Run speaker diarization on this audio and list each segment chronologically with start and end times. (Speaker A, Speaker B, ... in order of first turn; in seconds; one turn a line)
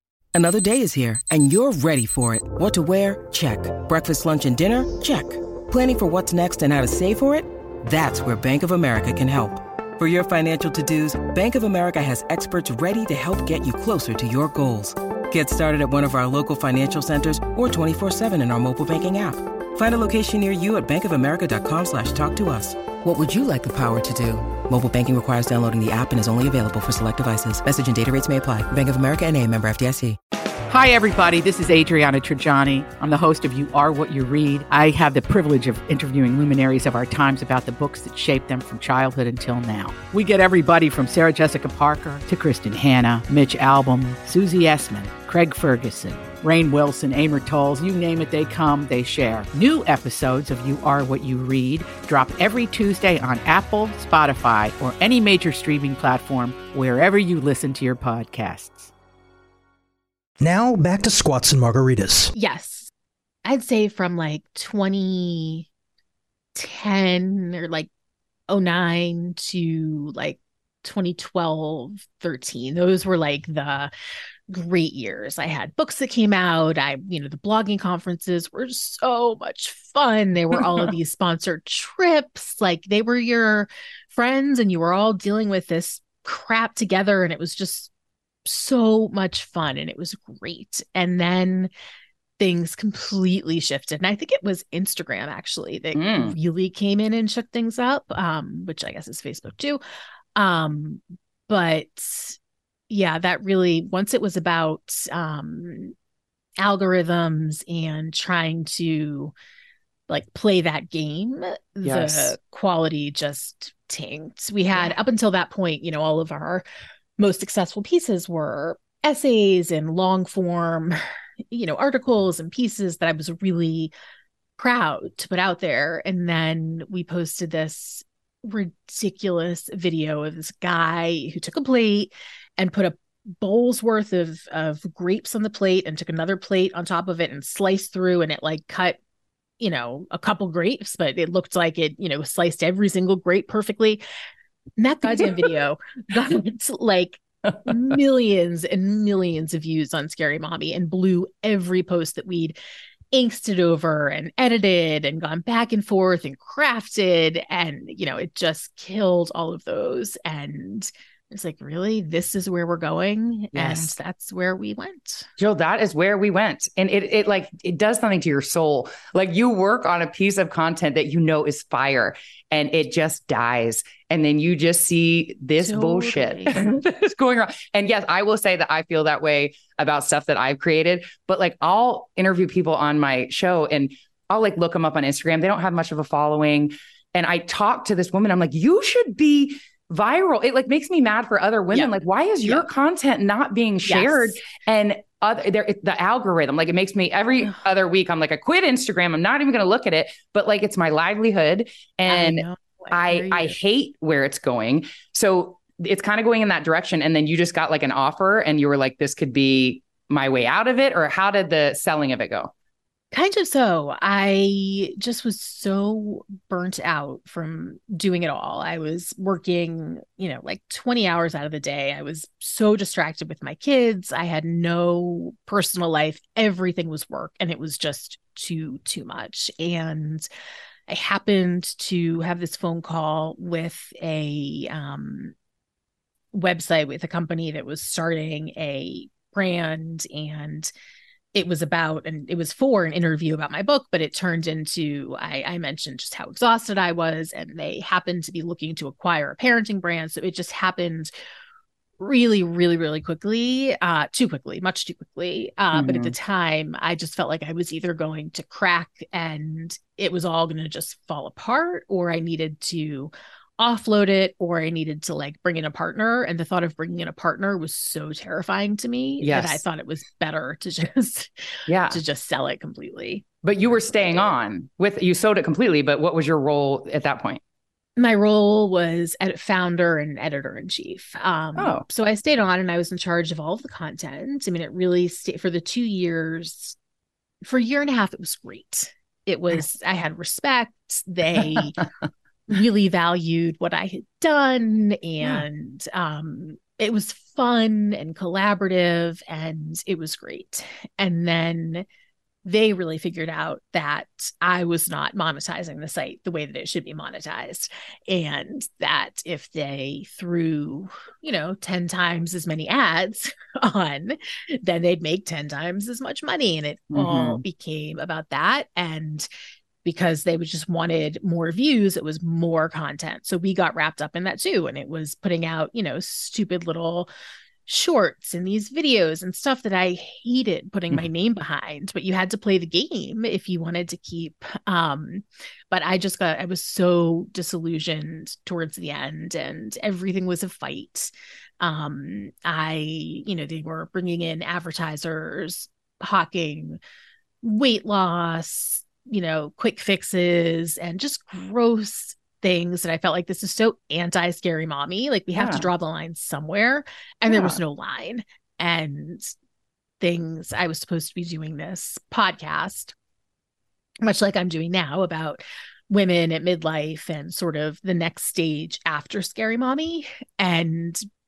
Speaker A: 0.3-30.2
Speaker B: 30.7-58.9
Speaker C: 60.4-62.3
Speaker D: 62.3-62.9
Speaker D: 63.4-65.7
Speaker D: 66.5-67.9
Speaker D: 68.5-73.9
Speaker D: 74.5-87.9
Speaker D: 88.4-91.7
Speaker D: 92.4-99.8
Speaker E: 95.9-96.3
Speaker D: 100.3-102.4
Speaker D: 102.9-105.9
Speaker D: 106.6-109.3
Speaker D: 110.1-116.6
Speaker E: 111.8-112.3
Speaker D: 117.2-121.0
Speaker D: 121.5-123.9
Speaker D: 124.6-139.0
Speaker D: 139.6-144.0
Speaker D: 144.8-152.6
Speaker E: 145.1-145.5
Speaker D: 153.1-165.3
Speaker E: 163.5-163.9
Speaker E: 165.4-212.5
Speaker D: 175.6-176.6
Speaker D: 191.7-192.7
Speaker D: 193.8-194.4
Speaker D: 202.1-203.5
Speaker D: 213.1-230.3
Speaker D: 230.9-235.3
Speaker D: 236.3-240.7
Speaker D: 241.3-251.1
Speaker D: 252.0-271.3
Speaker E: 255.7-256.1
Speaker E: 269.2-269.6
Speaker E: 271.7-272.0
Speaker D: 271.9-274.3
Speaker E: 273.4-277.4
Speaker D: 278.0-286.8
Speaker E: 281.6-281.8
Speaker D: 287.4-291.8
Speaker D: 292.5-301.8
Speaker D: 302.4-319.3
Speaker E: 316.9-317.4
Speaker D: 319.8-327.1
Speaker D: 327.7-346.8
Speaker D: 347.4-359.3
Speaker E: 355.3-355.7
Speaker E: 357.3-357.6
Speaker D: 360.0-362.9
Speaker D: 364.0-371.0